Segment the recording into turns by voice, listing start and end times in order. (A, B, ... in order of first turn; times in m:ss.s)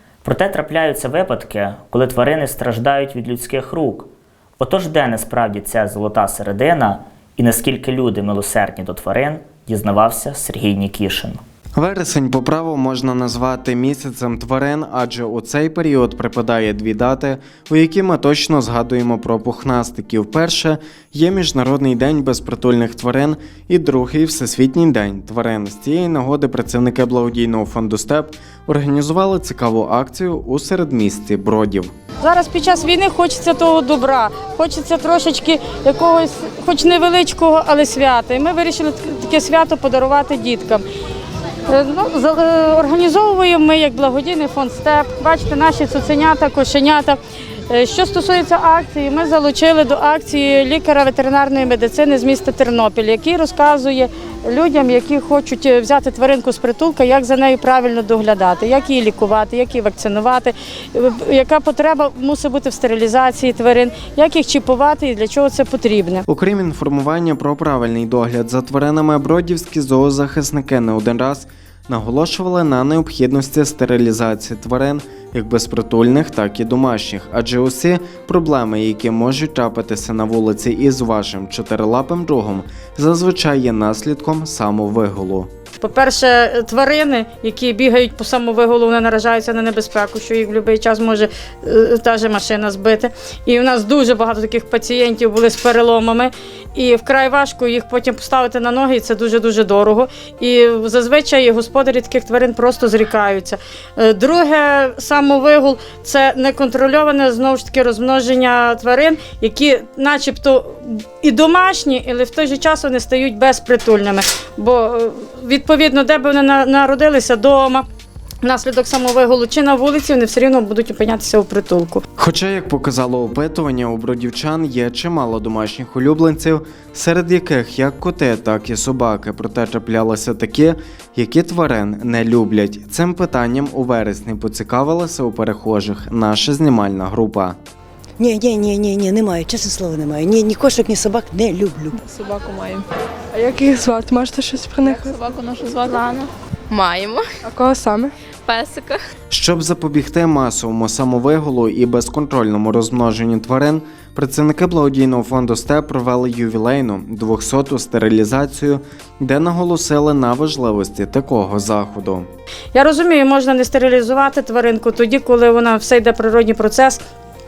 0:00.2-0:04.1 A
0:04.6-0:11.4 A
0:11.8-0:31.9 B
0:32.2-0:40.8 C
0:41.7-1:06.2 C
1:06.3-1:25.5 B
1:25.8-1:57.8 C
1:58.4-2:02.0 C
2:02.2-2:17.6 B
2:18.2-2:22.0 D
2:22.1-2:22.8 E
2:23.3-2:25.2 E
2:24.9-2:27.4 F
2:27.4-2:28.1 E
2:28.5-2:29.0 F
2:29.3-2:42.3 B
2:42.7-2:47.0 C